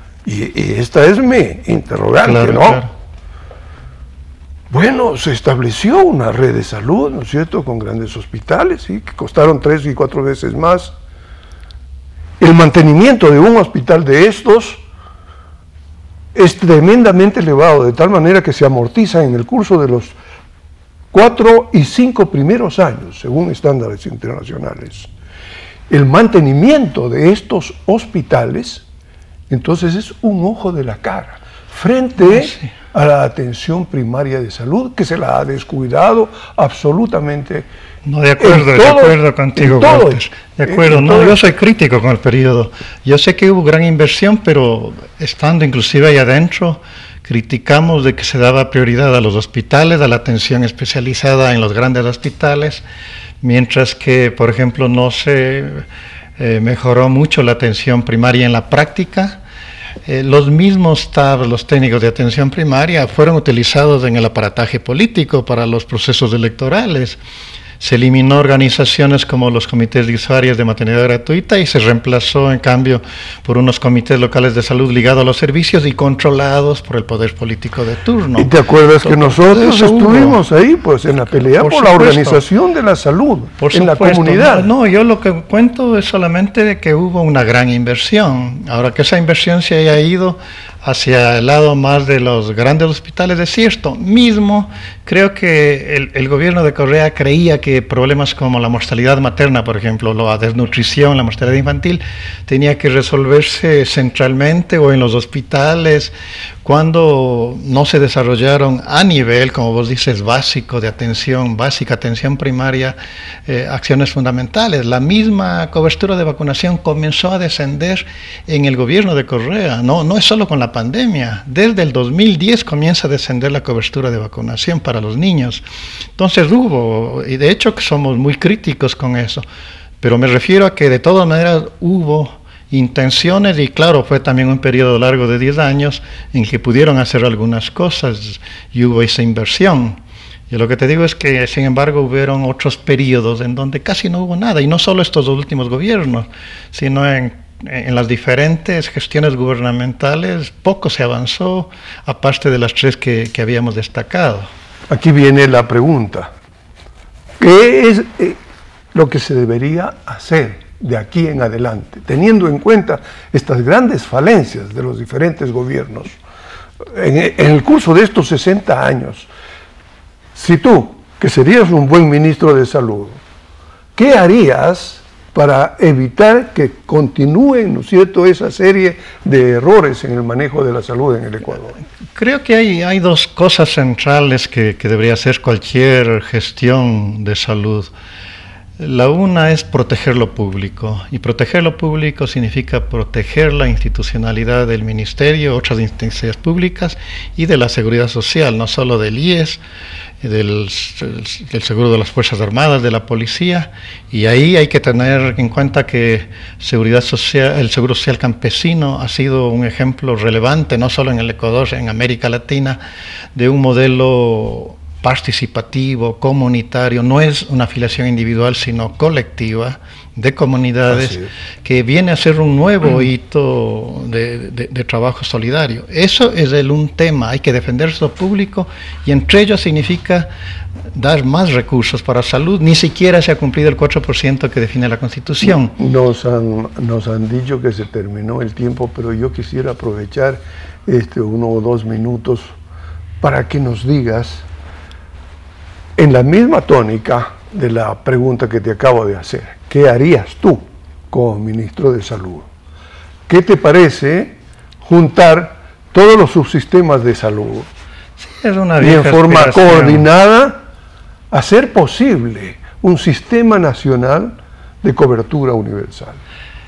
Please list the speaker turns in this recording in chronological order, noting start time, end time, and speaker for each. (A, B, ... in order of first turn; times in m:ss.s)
0:00.2-0:02.8 A
0:02.2-0:02.9 B
0:04.7-0:10.9 A
0:12.4-0:14.8 A
0:16.3-0:20.2 A
0:21.1-0:25.1 A
0:25.9-0:28.8 A
0:29.5-0:37.7 A
0:32.3-0:32.7 B
0:38.0-0:52.8 B
0:38.4-0:41.4 A
0:53.4-0:55.9 B
0:56.4-0:59.4 B
1:00.1-1:07.2 B
1:07.8-1:20.4 B
1:18.4-1:24.7 A
1:21.2-1:22.4 B
1:23.6-1:46.1 B
1:46.6-2:05.6 B
2:06.2-2:09.5 B
2:10.0-2:20.0 B
2:20.5-2:34.5 B
2:34.9-2:36.3 A
2:37.4-2:38.4 A
2:38.9-2:46.2 A
2:46.9-2:49.3 A
2:50.4-2:53.2 A
2:54.0-3:01.8 A
3:02.2-3:07.9 B
3:08.8-3:19.6 B
3:20.2-3:32.8 B
3:33.4-3:50.3 B
3:40.9-3:41.2 A
3:50.9-3:55.8 B
3:55.8-4:02.5 A
4:03.2-4:04.5 A
4:06.0-4:12.5 A
4:13.3-4:17.7 A
4:18.2-4:20.1 B
4:18.8-4:20.6 A
4:21.3-4:26.2 A